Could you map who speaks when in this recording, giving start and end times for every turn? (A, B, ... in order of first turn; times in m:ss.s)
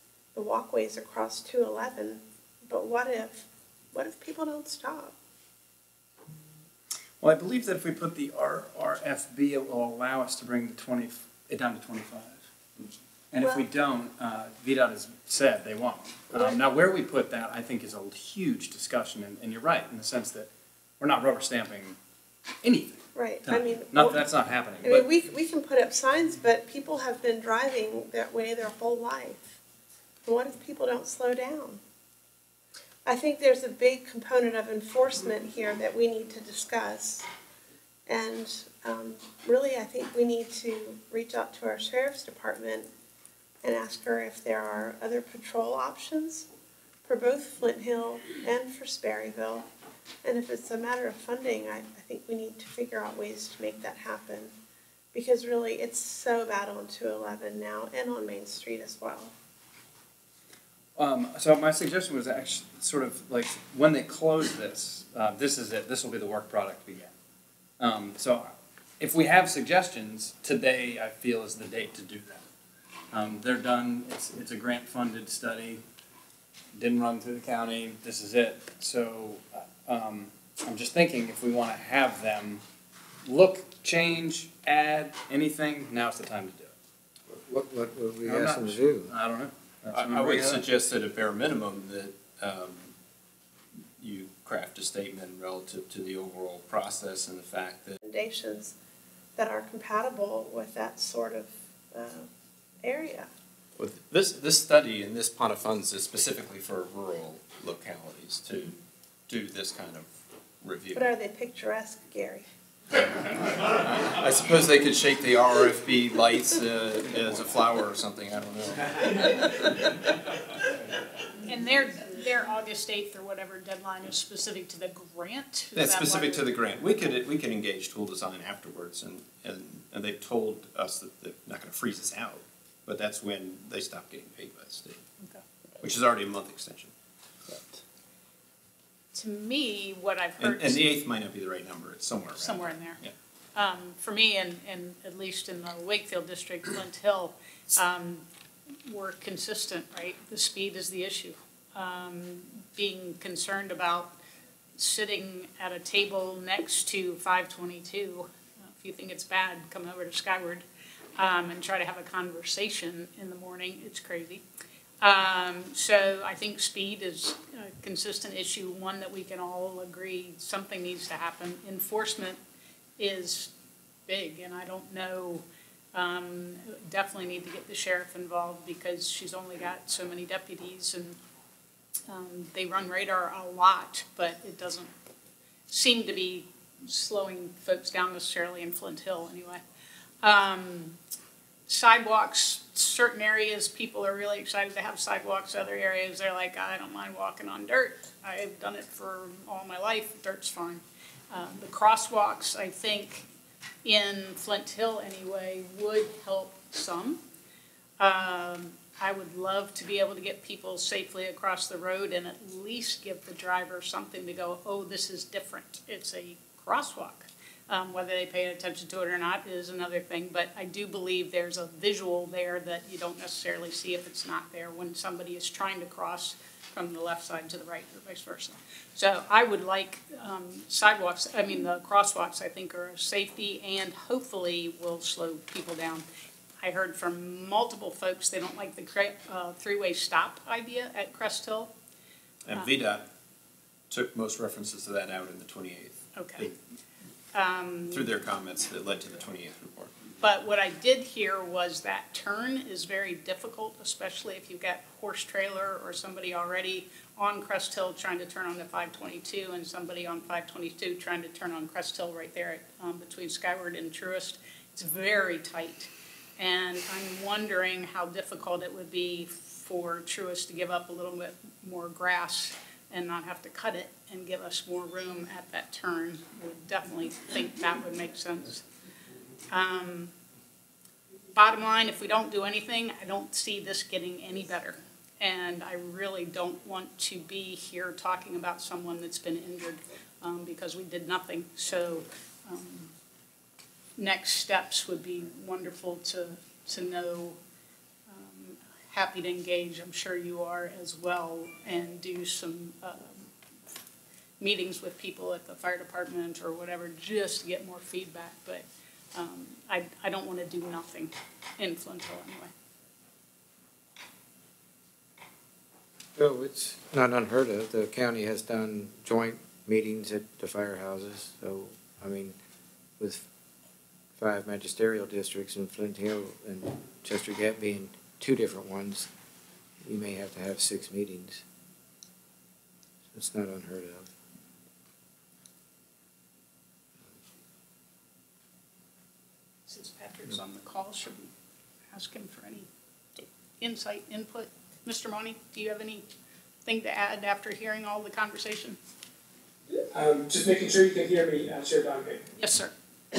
0:00.4-0:05.2 A
0:07.2-0:12.5 B
0:13.3-0:20.5 B
0:13.4-0:13.7 A
0:16.3-0:16.6 A
0:21.0-0:22.0 B
0:22.6-0:25.1 B
0:23.2-0:24.2 A
0:24.8-0:29.6 A
0:30.3-0:31.8 A
0:33.1-0:37.3 A
0:38.1-0:42.9 A
0:43.6-0:46.5 A
0:47.0-0:49.7 A
0:50.2-0:54.5 A
0:55.1-0:59.3 A
1:01.0-1:07.1 B
1:07.8-1:12.5 B
1:13.1-1:15.8 B
1:16.8-1:22.6 B
1:23.2-1:26.7 B
1:27.3-1:29.2 C
1:28.2-1:30.6 B
1:29.9-1:32.9 D
1:34.0-1:38.0 D
1:38.0-1:38.7 A
1:39.4-1:42.3 A
1:42.8-1:43.3 A
1:43.8-1:48.8 D
1:49.3-1:50.1 D
1:50.6-1:51.1 D
1:51.0-1:52.4 A
1:53.6-2:00.0 D
2:01.4-2:06.5 E
2:05.8-2:15.0 D
2:15.8-2:16.9 D
2:17.5-2:17.8 B
2:19.1-2:21.0 E
2:20.4-2:23.1 D
2:22.4-2:23.0 E
2:23.6-2:28.3 E
2:28.9-2:34.2 E
2:34.8-2:40.6 E
2:41.2-2:44.4 E
2:45.0-2:52.4 E
2:53.0-2:53.5 E
2:54.1-3:01.2 E
3:02.1-3:04.9 E
3:05.7-3:09.6 E
3:10.2-3:11.0 E
3:11.7-3:23.3 E
3:23.8-3:27.2 E
3:28.0-3:56.0 E
3:56.6-4:01.7 E
4:02.5-4:03.1 D
4:03.9-4:06.6 D
4:06.2-4:06.5 E
4:07.3-4:08.1 E
4:07.9-4:10.0 D
4:10.2-4:38.6 E
4:39.5-4:40.1 E
4:41.4-4:52.9 E
4:54.0-4:57.4 E
4:58.1-5:03.3 E
5:04.4-5:12.5 E
5:16.2-5:22.4 C
5:23.0-5:23.3 C
5:24.2-5:29.1 C
5:29.8-5:31.4 C
5:33.1-5:34.1 C
5:39.7-5:41.3 E
5:41.9-5:42.7 E
5:43.6-5:46.1 E
5:46.6-5:48.8 E
5:49.9-5:52.2 F
5:52.4-5:52.7 E